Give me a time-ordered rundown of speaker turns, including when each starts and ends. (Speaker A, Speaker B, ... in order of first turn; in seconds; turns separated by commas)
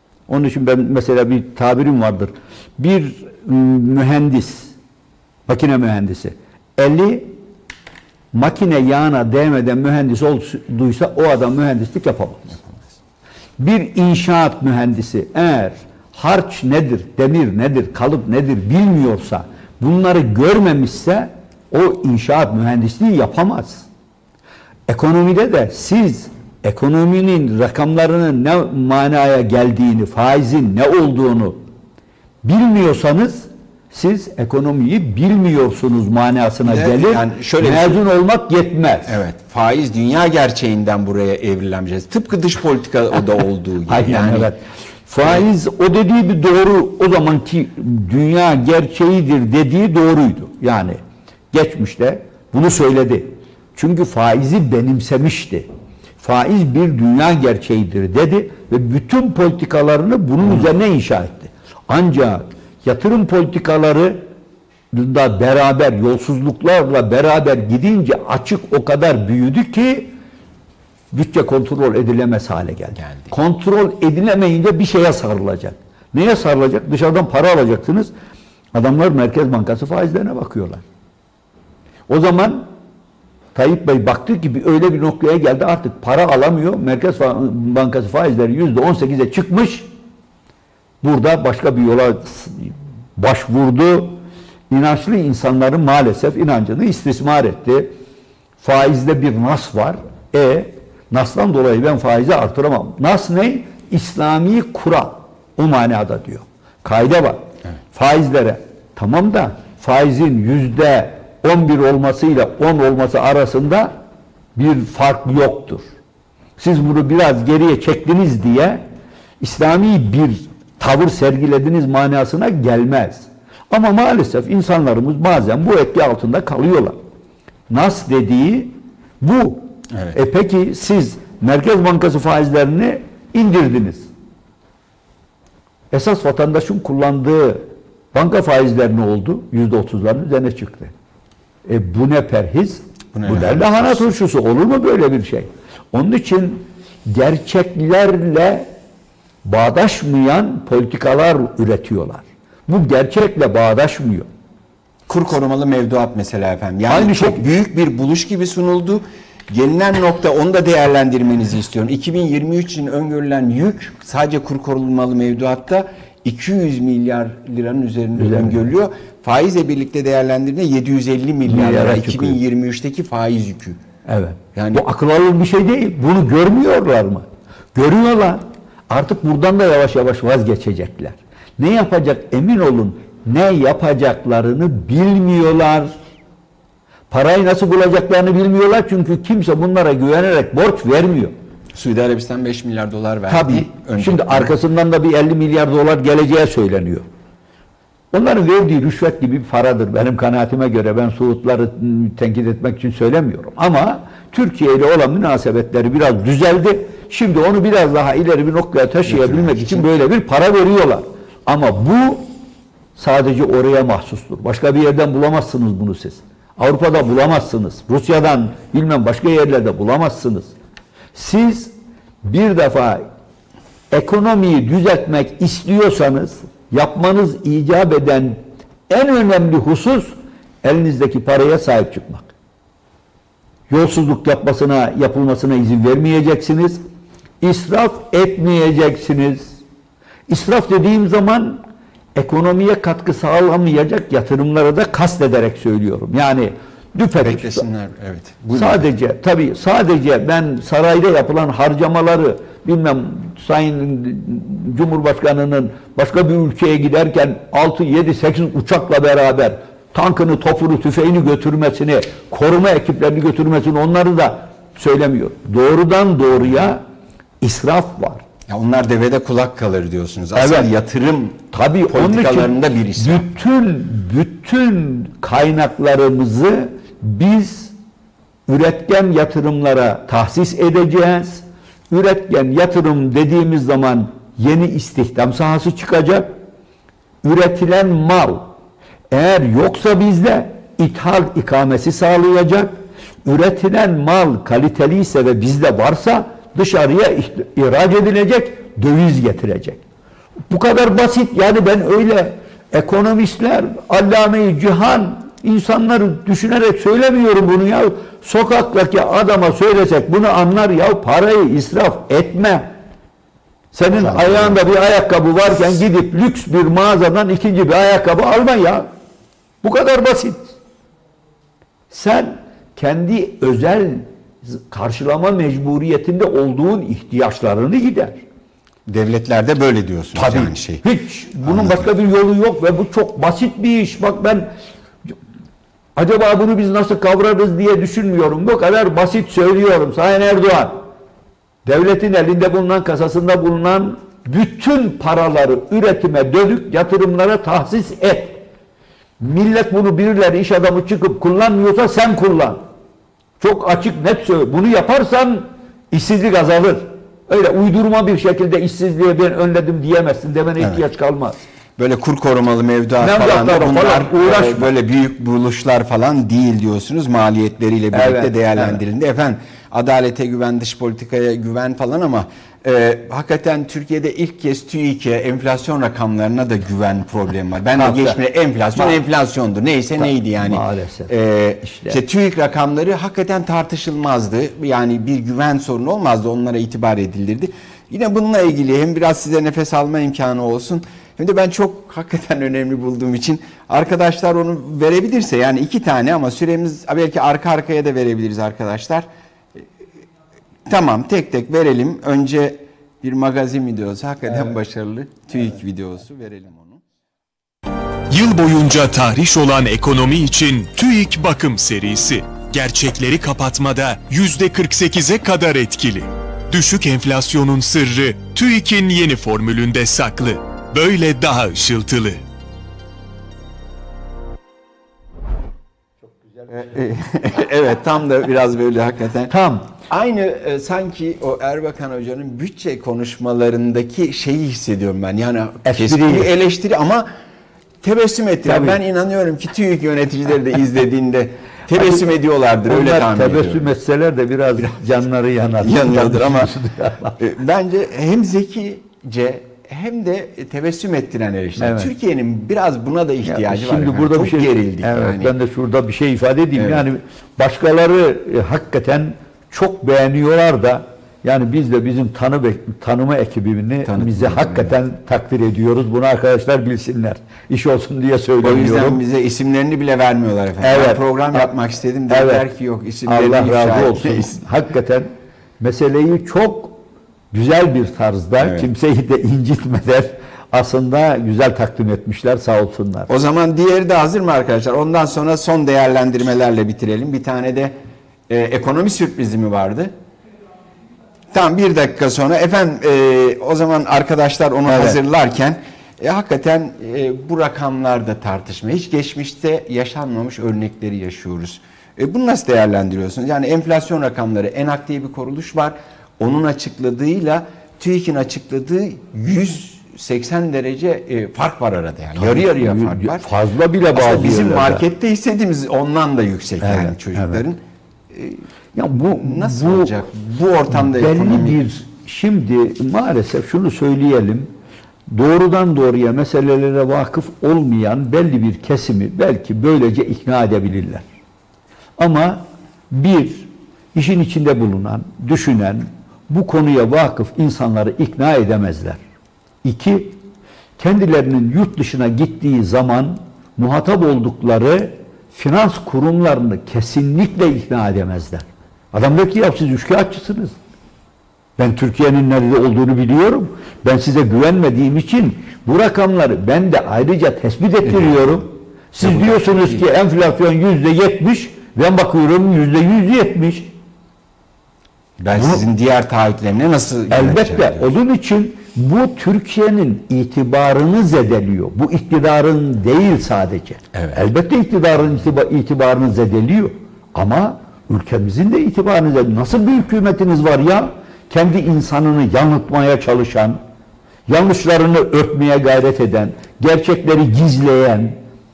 Speaker A: 0.3-4.7, Speaker A: 5.5-7.3, Speaker A: 8.3-12.6, Speaker B: 12.6-12.9, Speaker A: 13.6-23.9, Speaker A: 24.9-31.6, Speaker A: 32.4-39.2, Speaker B: 36.6-38.1, Speaker B: 39.1-44.5, Speaker A: 43.9-51.0, Speaker A: 51.5-55.7, Speaker A: 56.2-64.2, Speaker A: 64.9-70.1, Speaker A: 71.1-78.1, Speaker B: 73.0-73.3, Speaker A: 78.7-80.8, Speaker A: 82.1-82.7, Speaker A: 83.5-89.9, Speaker A: 91.0-94.2, Speaker A: 94.7-97.9, Speaker A: 98.6-113.9, Speaker A: 114.6-115.8, Speaker A: 116.6-118.8, Speaker A: 119.4-127.0, Speaker A: 127.7-134.1, Speaker A: 135.9-140.9, Speaker A: 141.7-148.7, Speaker B: 143.1-144.1, Speaker A: 149.4-154.3, Speaker B: 155.1-173.8, Speaker A: 156.9-157.5, Speaker A: 168.2-168.7, Speaker A: 171.4-172.4, Speaker A: 174.1-185.9, Speaker B: 174.6-174.8, Speaker A: 187.1-191.3, Speaker B: 191.7-194.5, Speaker A: 193.3-197.1, Speaker A: 198.1-212.3, Speaker B: 209.1-209.9, Speaker A: 213.0-220.5, Speaker A: 221.1-221.7, Speaker A: 222.2-223.0, Speaker A: 223.9-232.3, Speaker A: 233.7-236.8, Speaker A: 237.4-239.6, Speaker A: 240.3-241.6, Speaker A: 242.2-247.6, Speaker B: 247.2-248.9, Speaker A: 248.6-266.8, Speaker A: 267.4-268.2, Speaker B: 268.5-273.3, Speaker A: 270.4-270.7, Speaker A: 271.5-277.7, Speaker A: 278.5-286.3, Speaker A: 287.2-288.5, Speaker A: 289.1-299.8, Speaker A: 300.5-312.7, Speaker A: 313.7-318.9, Speaker B: 313.9-314.6, Speaker A: 319.6-320.5, Speaker A: 321.9-328.2, Speaker B: 328.9-330.8, Speaker A: 330.1-334.5, Speaker B: 331.4-331.9, Speaker A: 335.9-340.8, Speaker A: 341.6-348.4, Speaker A: 349.2-352.6, Speaker A: 353.4-361.4, Speaker B: 361.8-399.1, Speaker A: 363.0-364.7, Speaker A: 367.9-368.8, Speaker A: 377.8-378.2, Speaker A: 378.7-379.0, Speaker A: 380.0-382.0, Speaker B: 400.7-406.8, Speaker C: 408.1-422.2, Speaker B: 426.5-429.3, Speaker A: 429.3-429.7, Speaker B: 429.9-437.1, Speaker A: 435.6-436.3, Speaker B: 437.8-443.7, Speaker A: 438.4-438.8, Speaker A: 441.8-442.1, Speaker A: 442.6-447.2, Speaker B: 444.6-444.9, Speaker B: 445.6-446.5, Speaker B: 447.2-455.3, Speaker A: 451.6-451.9, Speaker A: 453.2-469.0, Speaker B: 456.6-456.9, Speaker B: 463.9-464.7, Speaker B: 468.4-474.4, Speaker A: 470.6-471.5, Speaker A: 472.1-472.5, Speaker A: 473.1-476.8, Speaker A: 477.3-483.1, Speaker B: 478.4-478.7, Speaker B: 483.1-487.7, Speaker B: 488.3-489.9, Speaker B: 491.3-513.3, Speaker A: 494.6-495.0, Speaker A: 512.1-514.9, Speaker B: 513.9-517.6, Speaker A: 516.6-517.4, Speaker A: 518.7-520.0, Speaker B: 518.9-521.6, Speaker A: 520.7-524.5, Speaker A: 525.1-531.0, Speaker A: 532.0-539.0, Speaker A: 539.6-540.1, Speaker A: 540.8-550.5, Speaker A: 551.6-563.7, Speaker B: 557.9-558.4, Speaker B: 559.0-559.9, Speaker B: 565.2-567.9, Speaker A: 565.3-565.6, Speaker A: 567.1-583.6, Speaker B: 573.9-574.2, Speaker A: 584.3-588.2